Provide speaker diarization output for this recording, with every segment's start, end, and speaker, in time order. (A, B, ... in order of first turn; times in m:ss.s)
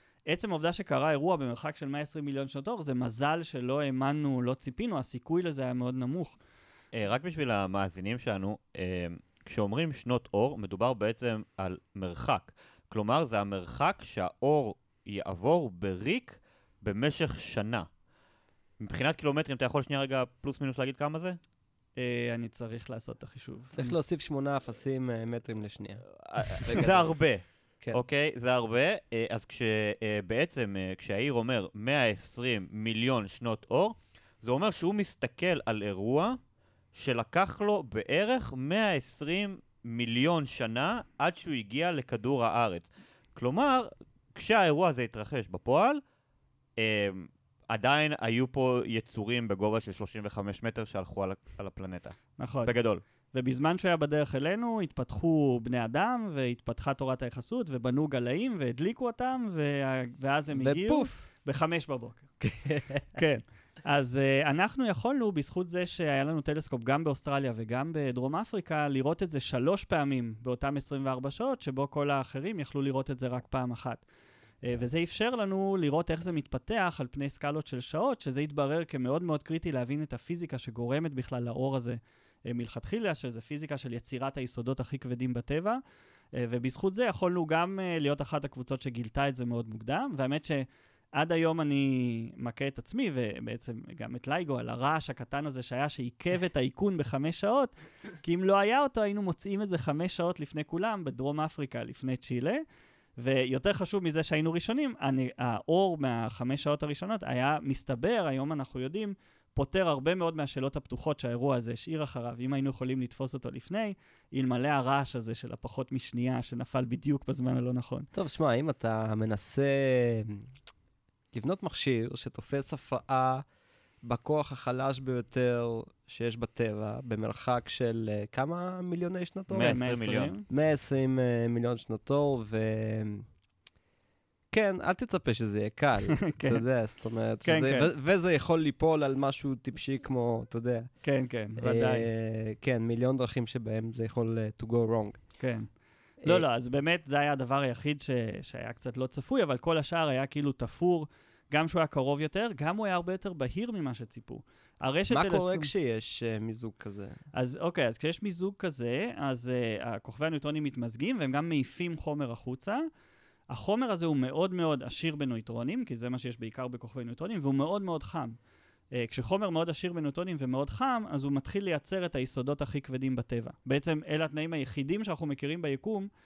0:00.3-0:06.4 A
0:06.9-0:17.9 B
0:18.8-0:21.4 B
0:22.0-0:24.0 A
0:23.7-0:27.1 C
0:26.2-0:36.4 B
0:36.9-0:46.0 B
0:46.8-0:53.0 B
0:52.4-0:52.7 A
0:53.3-1:02.3 A
1:00.5-1:01.2 C
1:02.4-1:03.0 C
1:03.1-1:14.0 A
1:14.6-1:25.8 A
1:26.3-1:42.6 A
1:43.2-1:58.1 A
1:58.1-2:00.5 C
2:01.3-2:03.4 C
2:04.0-2:09.8 C
2:09.5-2:10.3 B
2:09.5-2:10.4 A
2:10.5-2:13.3 C
2:14.5-2:20.9 C
2:16.2-2:16.6 A
2:17.4-2:17.9 A
2:21.0-2:22.1 A
2:21.6-2:25.2 C
2:25.4-2:25.7 A
2:26.2-2:35.7 A
2:35.1-2:37.2 C
2:37.3-2:42.8 A
2:43.5-2:48.4 A
2:48.9-2:56.1 A